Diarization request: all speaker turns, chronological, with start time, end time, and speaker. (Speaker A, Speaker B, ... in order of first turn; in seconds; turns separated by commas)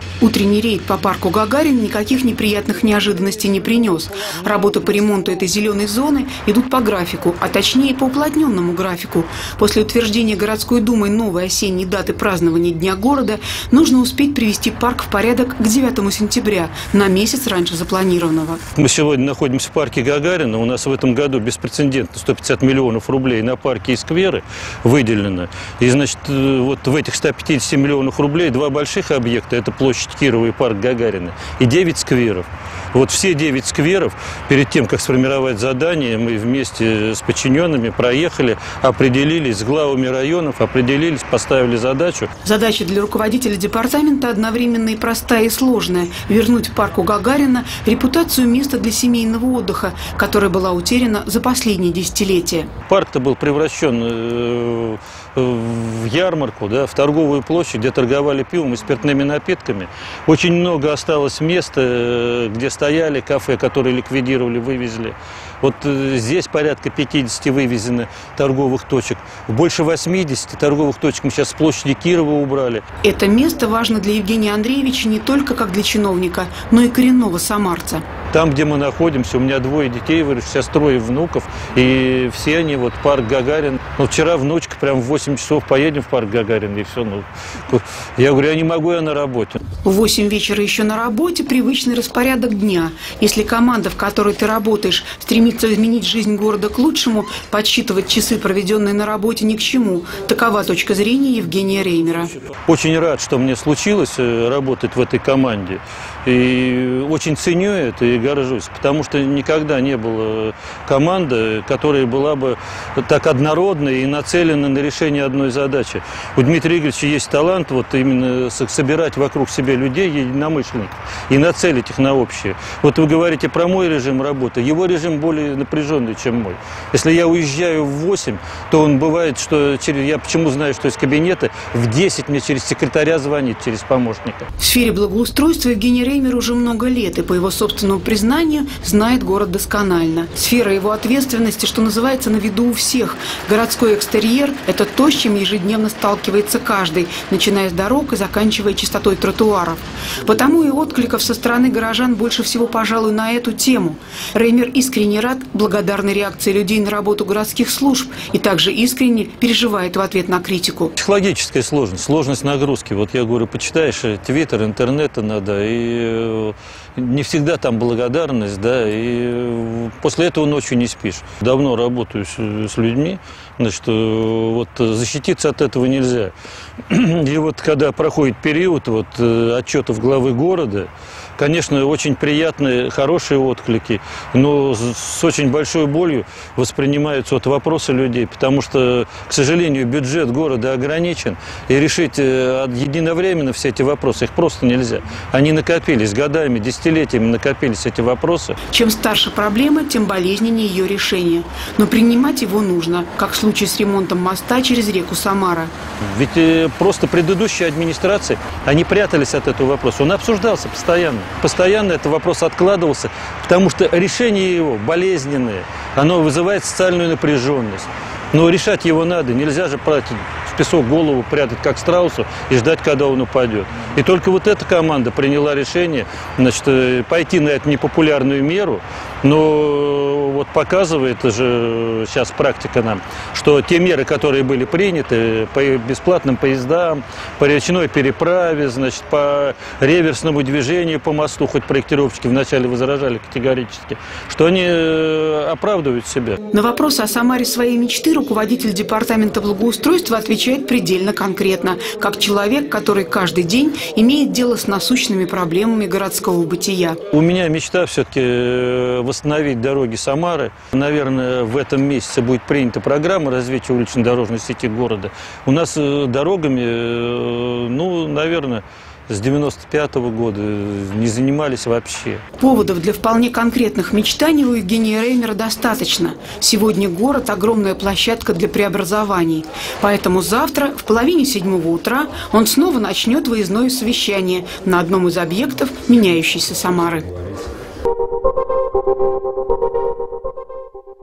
Speaker A: 0.2-18.6, Speaker B: 18.8-42.3, Speaker A: 42.4-52.7, Speaker B: 52.9-72.8, Speaker A: 73.0-78.0, Speaker B: 78.3-89.6, Speaker A: 89.8-102.3, Speaker B: 102.7-134.5, Speaker A: 134.6-160.9, Speaker B: 161.0-176.3, Speaker B: 176.9-198.6, Speaker A: 198.7-205.7, Speaker B: 206.0-246.4, Speaker A: 246.5-257.0, Speaker B: 257.1-272.2, Speaker A: 272.4-287.1